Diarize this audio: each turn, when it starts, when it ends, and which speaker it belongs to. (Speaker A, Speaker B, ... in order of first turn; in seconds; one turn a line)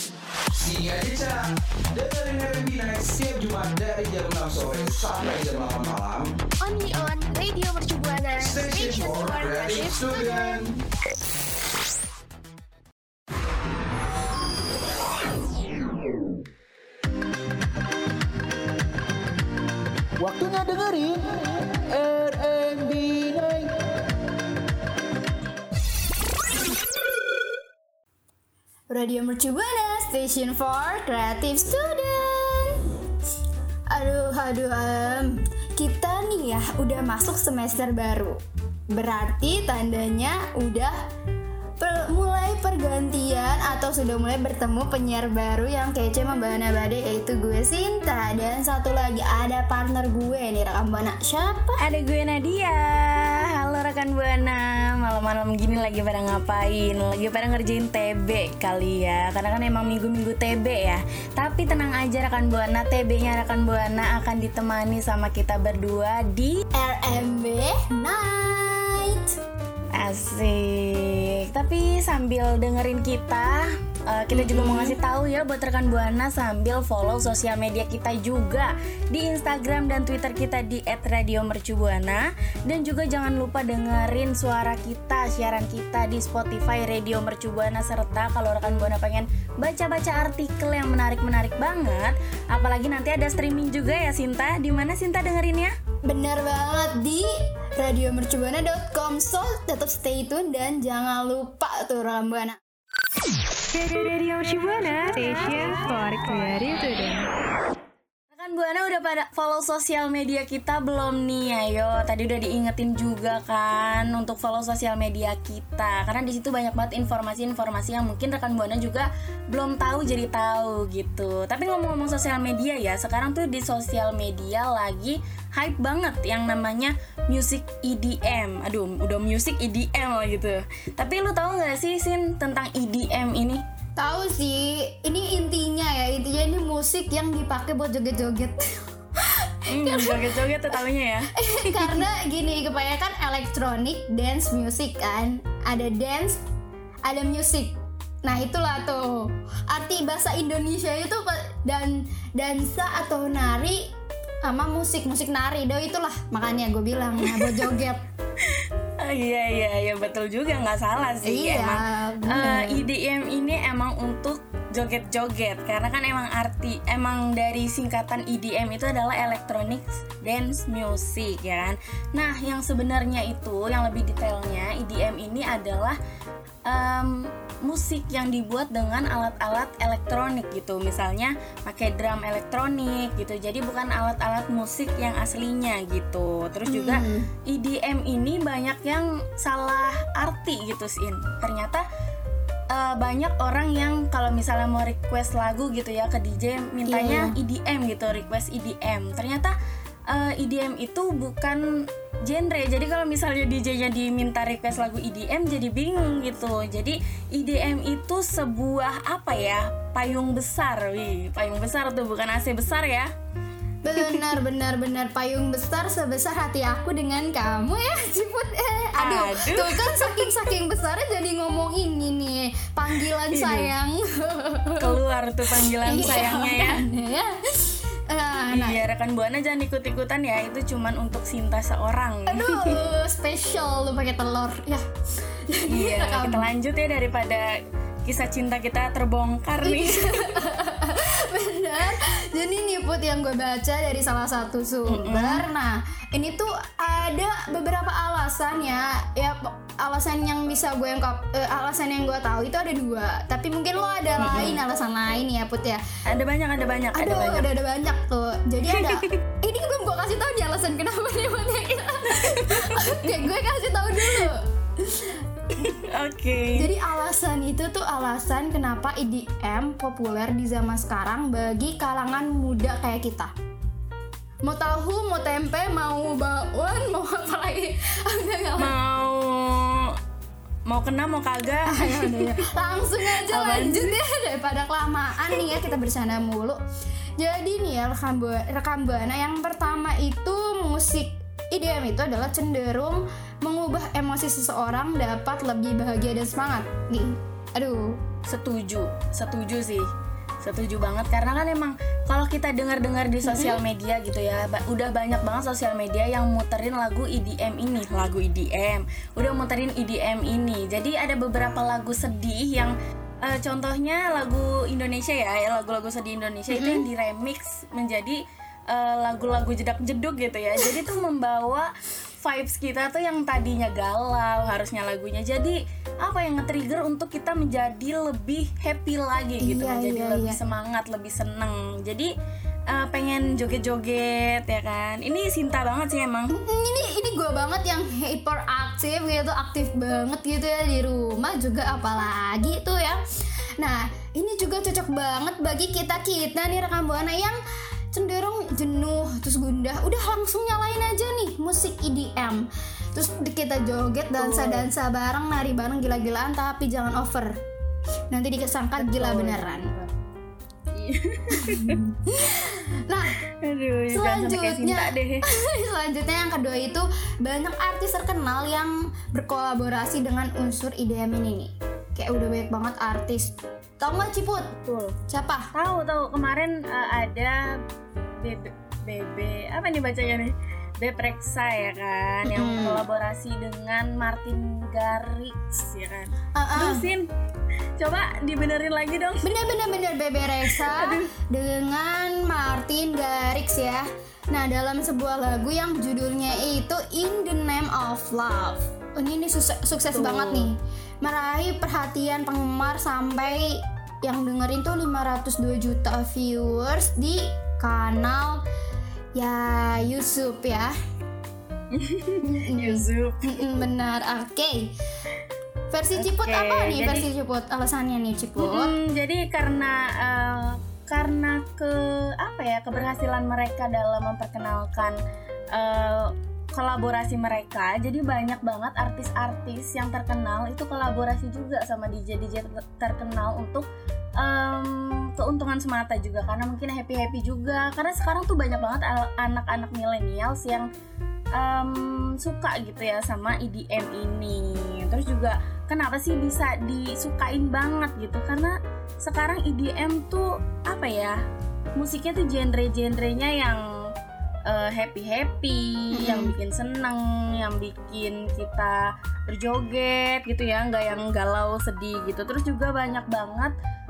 Speaker A: 0.6-6.3
Speaker B: 6.6-10.7
Speaker A: 8.4-10.8
Speaker C: 20.2-21.3
Speaker C: 21.9-23.7
Speaker D: 28.9-32.8
Speaker D: 33.9-38.4
Speaker D: 38.9-41.0
Speaker D: 41.8-51.8
Speaker E: 51.8-66.6
Speaker D: 66.8-69.3
Speaker E: 70.0-95.8
Speaker D: 74.3-75.0
Speaker D: 96.1-97.2
Speaker D: 97.8-102.6
Speaker F: 103.7-107.3
Speaker E: 105.4-105.9
Speaker E: 108.3-133.6
Speaker D: 134.0-138.7
Speaker D: 139.4-140.8
Speaker E: 139.7-142.1
Speaker D: 141.4-146.4
Speaker D: 147.1-153.8
Speaker D: 154.5-158.0
Speaker E: 157.2-157.5
Speaker E: 158.5-176.0
Speaker D: 161.2-162.8
Speaker E: 176.7-191.8
Speaker D: 186.7-187.3
Speaker E: 192.7-199.5
Speaker D: 196.8-197.3
Speaker E: 200.1-213.1
Speaker D: 213.8-224.9
Speaker E: 214.0-214.3
Speaker E: 219.0-220.3
Speaker E: 223.3-223.7
Speaker E: 224.8-226.8
Speaker D: 225.6-228.8
Speaker E: 228.5-232.8
Speaker D: 232.3-234.8
Speaker D: 235.5-236.5
Speaker E: 235.7-237.5
Speaker E: 238.1-240.3
Speaker D: 239.6-255.8
Speaker E: 244.9-245.4
Speaker E: 254.2-254.6
Speaker E: 256.1-257.5
Speaker D: 256.9-265.2
Speaker E: 258.7-259.0
Speaker E: 262.2-263.3
Speaker E: 265.5-266.7
Speaker D: 266.6-273.3
Speaker D: 274.4-278.7
Speaker E: 278.6-279.9
Speaker E: 280.7-282.3
Speaker D: 281.7-286.6
Speaker E: 283.2-284.0
Speaker D: 287.2-298.0
Speaker E: 298.3-299.9
Speaker E: 300.4-321.7
Speaker D: 303.2-303.6
Speaker D: 316.5-316.8
Speaker E: 322.2-332.1
Speaker D: 329.4-330.4
Speaker E: 332.7-336.3
Speaker D: 336.3-343.0
Speaker D: 343.6-347.4
Speaker D: 347.9-357.3
Speaker E: 354.2-354.7
Speaker D: 358.1-359.7
Speaker E: 358.8-359.9
Speaker E: 360.7-361.8
Speaker D: 361.4-363.1
Speaker E: 363.4-365.2
Speaker D: 363.9-374.5
Speaker E: 374.6-375.0
Speaker D: 375.1-375.5
Speaker E: 375.5-377.4
Speaker E: 378.2-387.1
Speaker D: 382.3-382.8
Speaker D: 386.4-386.9
Speaker E: 387.8-389.3
Speaker D: 389.2-408.4
Speaker E: 390.5-391.0
Speaker E: 399.9-400.5
Speaker D: 409.2-410.7
Speaker E: 411.7-413.3
Speaker D: 412.2-414.7
Speaker D: 415.7-418.7
Speaker E: 416.0-417.1
Speaker E: 418.4-425.0
Speaker E: 425.5-433.7
Speaker E: 434.2-440.7
Speaker E: 441.4-451.2
Speaker E: 451.8-453.6
Speaker E: 454.5-463.5
Speaker D: 455.9-456.3